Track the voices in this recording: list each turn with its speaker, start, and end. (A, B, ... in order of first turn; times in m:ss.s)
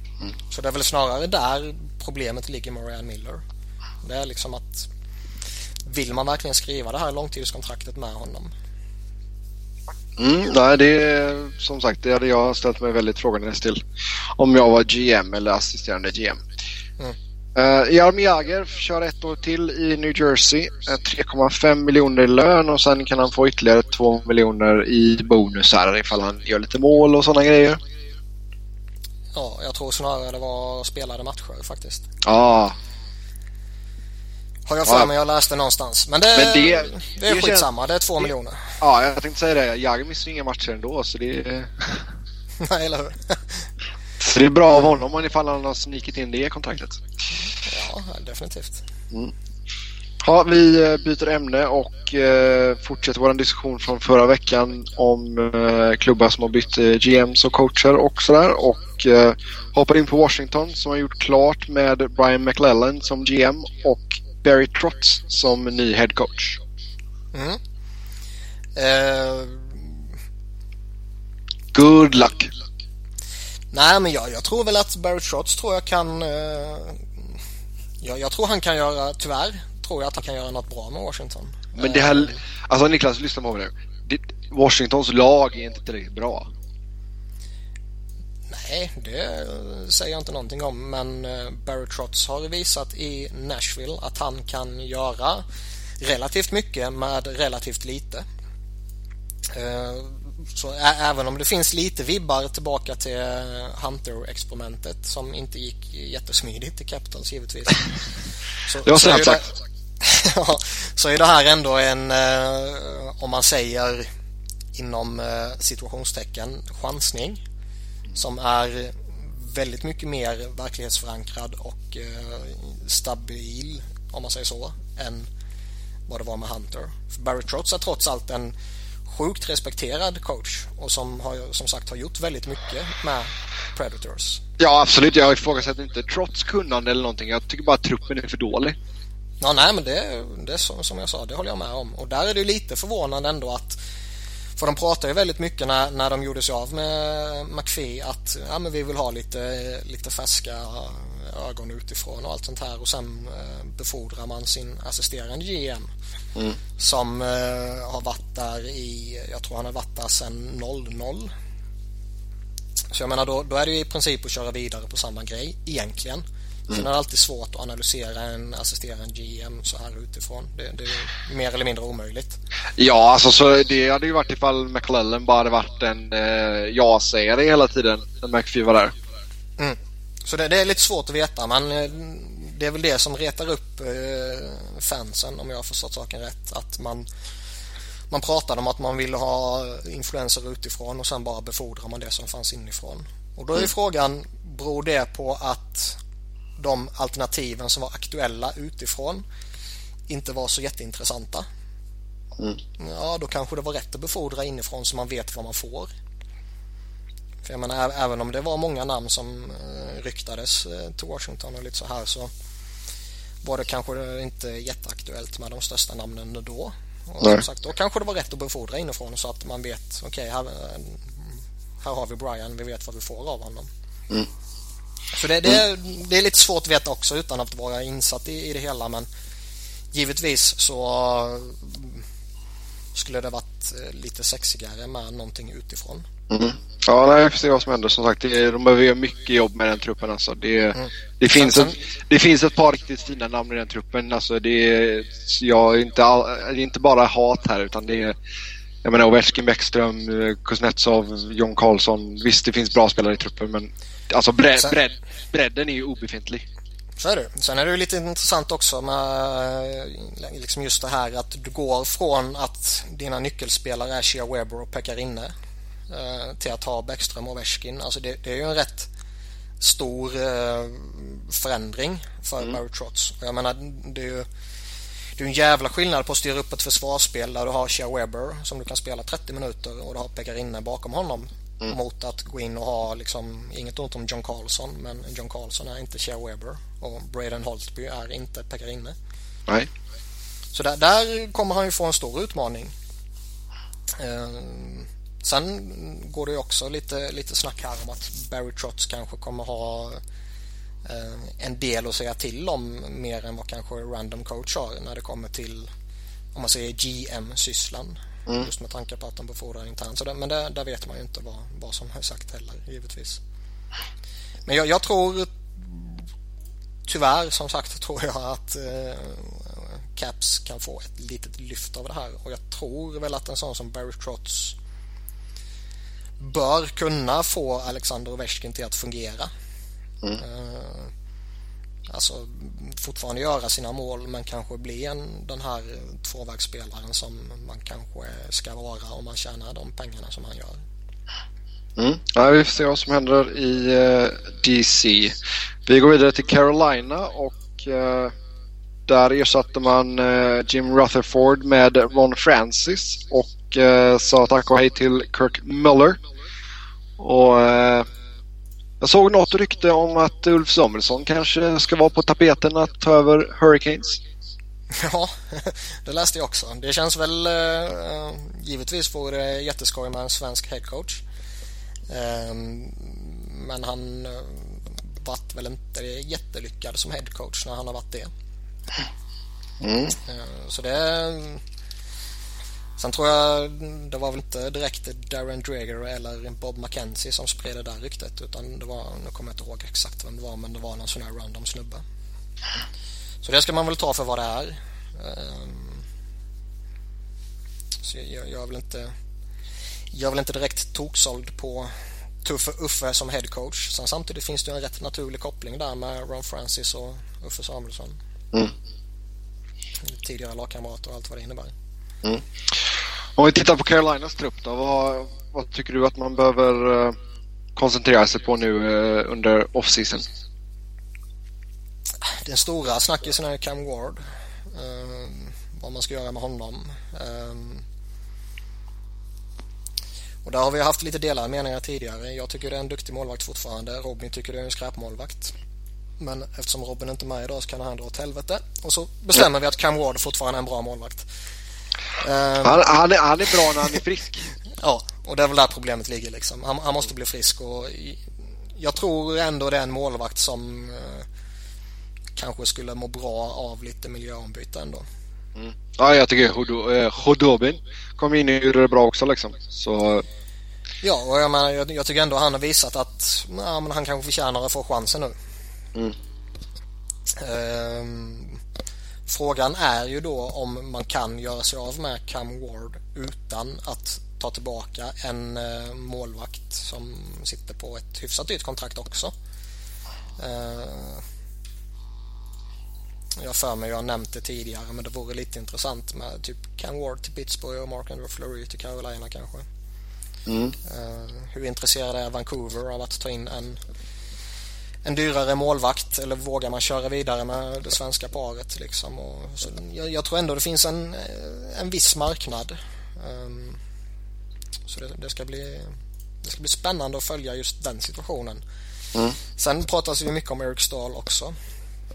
0:00.5-0:03.4 A
0:04.0-0:04.9 A
0:05.9-0:08.5 A
0:10.2-0:13.8 B
0:14.4-0:16.4 B
0:17.6-0:27.8 B
0:29.3-0:32.0 A
0:32.2-0:32.8 B
0:34.7-0:38.7 A
0:36.3-0:37.7 B
0:38.8-0:42.1 B
0:42.6-0:43.7 A
0:44.2-0:47.0 B
0:47.6-0:48.8 A
0:50.2-1:06.6 B
1:07.3-1:07.6 A
1:08.8-1:10.0 A
1:11.7-1:12.5 B
1:13.7-1:17.4 A
1:18.0-1:22.4 A
1:21.8-1:26.5 B
1:28.5-1:35.4 A
1:36.0-1:38.3 A
1:39.5-1:48.0 A
1:48.7-1:54.1 A
1:48.8-1:49.5 B
1:54.7-1:57.4 A
1:58.2-2:05.3 A
2:06.1-2:08.5 A
2:09.1-2:14.4 A
2:14.6-2:18.8 B
2:19.4-2:23.8 A
2:24.6-2:35.9 A
2:36.8-2:41.3 A
2:42.9-2:52.4 A
2:52.8-2:58.9 B
2:59.6-3:07.1 A
3:08.1-3:16.0 A
3:16.6-3:19.2 A
3:20.1-3:21.5 A
3:22.8-3:25.9 A
3:27.4-3:32.3 A
3:33.4-3:43.7 A
3:45.1-3:49.1 A
3:49.9-3:52.0 A
3:52.9-3:56.1 A
3:56.3-4:08.2 B
4:00.8-4:01.7 A
4:08.8-4:16.4 B
4:17.0-4:25.3 A
4:25.9-4:28.9 A
4:29.6-4:34.3 A
4:35.2-4:49.0 A
4:50.5-4:52.8 A
4:53.9-5:00.0 A
5:00.8-5:05.7 A
5:06.3-5:13.2 A
5:14.5-5:16.1 A
5:16.8-5:24.6 A
5:26.2-5:29.3 A
5:30.2-5:30.9 A
5:31.9-5:40.6 A
5:41.8-5:48.1 B
5:48.9-5:56.0 B
5:57.0-5:57.9 B
5:58.8-6:04.0 B
6:04.7-6:11.0 A
6:11.9-6:18.1 A
6:19.6-6:20.0 B
6:20.0-6:21.4 A
6:22.8-6:31.8 A
6:33.2-6:35.8 A
6:37.8-6:38.9 A
6:39.9-6:41.7 A
6:42.2-6:48.0 A
6:49.8-6:51.5 A
6:53.2-6:57.0 B
6:57.6-7:00.1 B
7:02.0-7:07.6 A
7:10.2-7:15.3 A
7:16.0-7:21.1 A
7:22.0-7:22.6 A
7:22.4-7:24.3 B
7:24.6-7:31.1 A
7:32.2-7:34.9 A
7:35.4-7:40.0 B
7:40.8-7:45.2 A
7:47.1-7:48.4 A
7:49.1-7:59.1 A
8:00.2-8:01.0 A
8:03.2-8:09.5 A
8:10.3-8:10.6 B
8:10.6-8:13.6 A
8:14.8-8:23.6 A
8:24.7-8:25.7 A
8:26.2-8:28.4 A
8:29.4-8:31.4 A